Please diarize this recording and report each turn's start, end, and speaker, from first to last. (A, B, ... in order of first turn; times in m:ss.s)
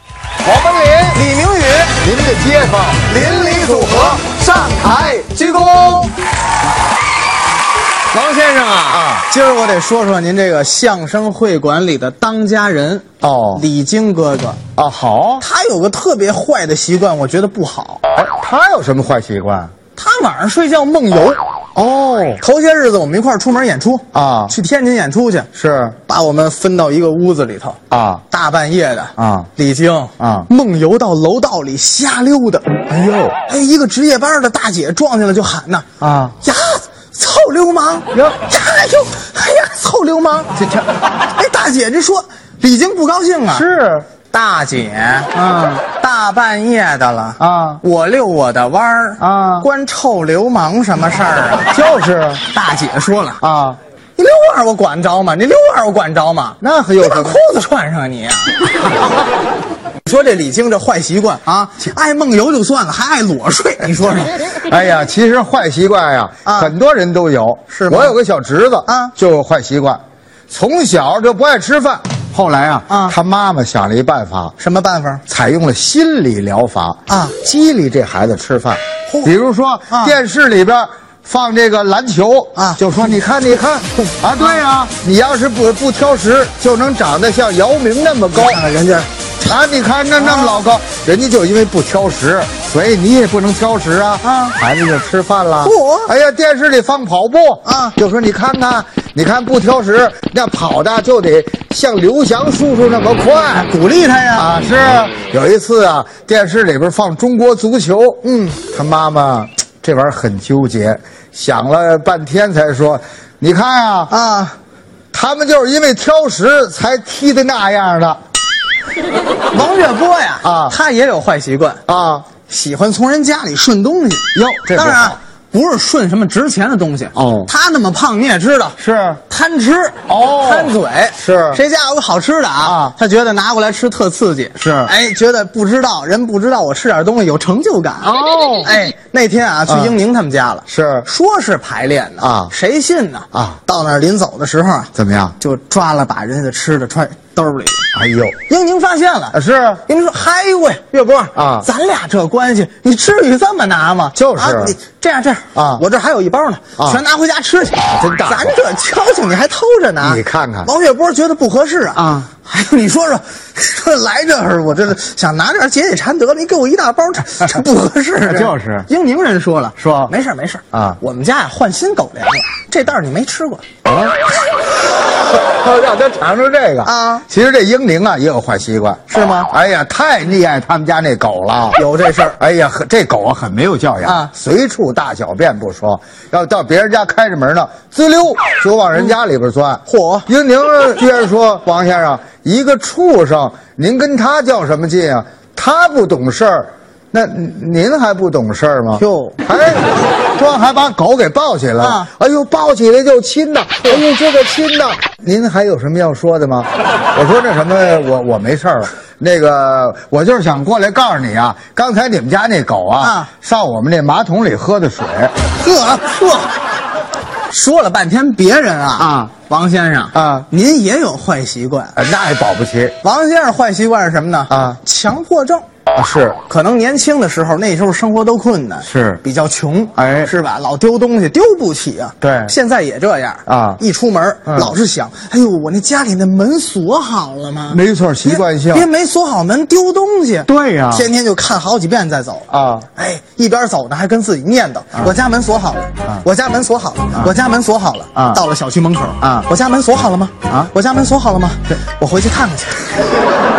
0:00.4-0:01.2 A
0:01.1-0:02.0 B
0:02.0-0:06.1 A
0:03.1-0:05.9 B
0:08.1-0:14.6 B
0:08.2-0:09.3 A
0:13.2-0:13.6 A
0:14.8-0:15.4 A
0:15.4-0:18.0 B
0:18.1-0:19.7 A
0:20.0-0:21.4 B
0:21.7-0:22.4 A
0:22.4-0:25.5 B
0:24.1-0:24.5 A
0:25.5-0:26.0 A
0:26.0-0:32.8 B
0:27.9-0:28.2 A
0:29.2-0:29.5 A
0:30.2-0:30.5 A
0:32.9-0:33.4 A
0:33.4-0:35.9 B
0:36.0-0:36.4 A
0:36.4-0:40.5 B
0:38.1-0:38.4 A
0:40.6-0:40.9 A
0:41.2-0:43.6 B
0:43.5-0:44.1 A
0:44.3-0:51.8 B
0:47.4-0:47.8 A
0:49.2-0:49.7 A
0:51.7-0:52.4 A
0:52.5-0:53.4 B
0:53.4-0:53.8 A
0:54.2-0:58.7 B
0:56.6-0:57.4 A
1:00.0-1:04.5 B
1:04.4-1:14.5 A
1:06.4-1:06.7 B
1:07.7-1:08.2 B
1:08.8-1:09.1 B
1:12.9-1:13.2 B
1:14.6-1:15.2 B
1:15.3-1:28.6 A
1:17.1-1:17.3 B
1:19.9-1:20.2 B
1:22.5-1:23.0 B
1:28.3-1:29.1 B
1:29.4-1:43.7 A
1:30.2-1:30.6 B
1:34.2-1:34.6 B
1:35.6-1:36.1 B
1:37.6-1:38.0 B
1:43.5-1:44.5 B
1:44.3-1:54.1 A
1:48.2-1:48.6 B
1:54.1-1:54.6 B
1:55.1-1:58.2 A
1:59.5-2:01.8 B
2:00.4-2:00.8 A
2:01.9-2:02.3 A
2:02.4-2:27.9 B
2:04.3-2:05.2 A
2:07.1-2:07.5 A
2:08.8-2:09.2 A
2:10.1-2:11.6 A
2:12.6-2:12.9 A
2:14.6-2:14.9 A
2:18.0-2:18.8 A
2:19.7-2:20.0 A
2:20.7-2:21.1 A
2:22.2-2:22.5 A
2:23.3-2:23.6 A
2:24.9-2:25.4 A
2:27.9-2:28.4 A
2:28.4-2:53.6 B
2:29.3-2:29.8 A
2:31.3-2:31.7 A
2:34.2-2:34.8 A
2:35.5-2:35.8 A
2:37.8-2:38.5 A
2:40.0-2:40.7 A
2:41.9-2:42.3 A
2:48.2-2:48.9 A
2:49.8-2:50.1 A
2:50.7-2:51.0 A
2:53.8-2:54.2 A
2:55.1-3:01.8 A
2:56.8-2:57.2 B
2:59.1-2:59.5 B
3:01.7-3:02.4 B
3:02.4-3:35.3 A
3:04.0-3:04.3 B
3:09.8-3:10.3 B
3:19.0-3:19.4 B
3:21.8-3:22.1 B
3:33.0-3:33.3 B
3:35.6-3:36.5 B
3:37.5-3:42.0 B
3:39.0-3:39.3 A
3:40.1-3:40.5 A
3:41.9-3:43.0 A
3:43.0-3:45.6 B
3:44.5-3:44.8 A
3:45.9-3:46.4 A
3:46.4-4:13.0 B
3:48.8-3:49.2 A
3:50.0-3:50.3 A
3:52.2-3:52.5 A
3:53.5-3:53.8 A
3:54.4-3:54.8 A
3:57.7-3:58.9 A
4:00.4-4:01.1 A
4:02.5-4:02.9 A
4:08.1-4:08.4 A
4:09.2-4:09.5 A